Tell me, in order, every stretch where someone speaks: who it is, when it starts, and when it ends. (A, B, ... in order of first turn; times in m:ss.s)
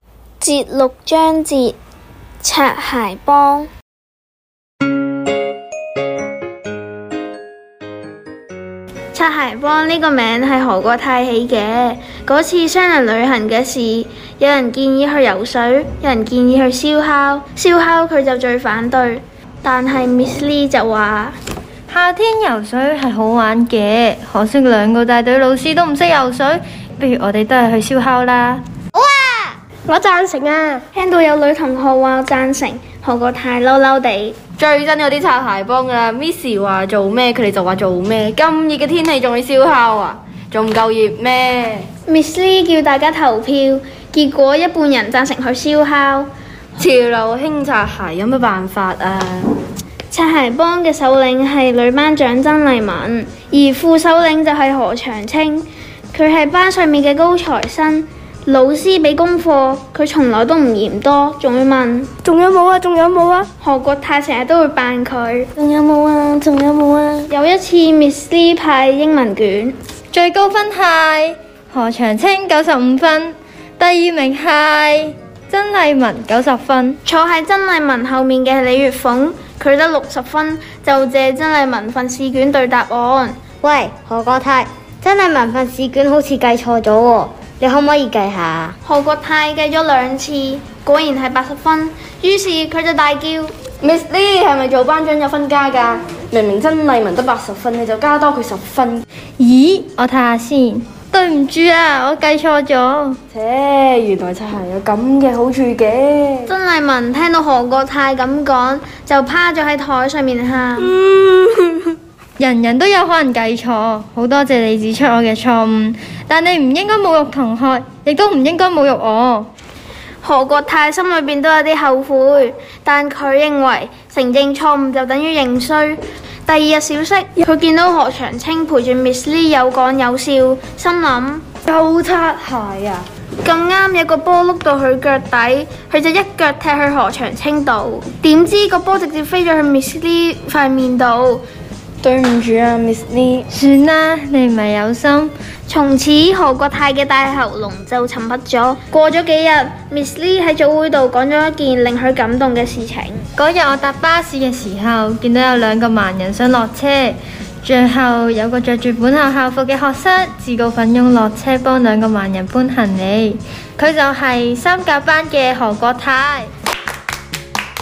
0:00.4-0:01.8 A
0:02.4-0:03.7 A
0:09.1-0:21.4 A
0:21.9-0:28.6 B
0:28.9-0:29.6 C
0:29.9-0:30.8 D
0:30.9-0:34.4 A
0:34.6-0:41.9 E
0:42.1-0:46.3 A
0:46.8-0:49.5 E
0:50.1-1:02.1 A
1:02.2-1:03.5 D
1:03.6-1:05.5 A
1:05.6-1:07.2 D
1:05.6-1:07.0 E
1:07.3-1:09.7 A
1:10.1-1:17.0 B
1:17.0-1:23.4 A
1:23.6-1:28.7 C
1:28.8-1:33.5 A
1:33.8-1:39.0 E
1:39.4-1:43.2 B
1:43.3-1:46.5 E
1:46.4-1:51.0 A
1:51.1-1:51.5 E
1:52.4-1:59.5 B
2:00.2-2:11.4 A
2:11.6-2:13.0 E
2:13.4-2:21.4 A
2:22.0-2:23.4 E
2:23.5-2:25.3 B
2:25.7-2:33.2 A
2:33.4-2:46.5 B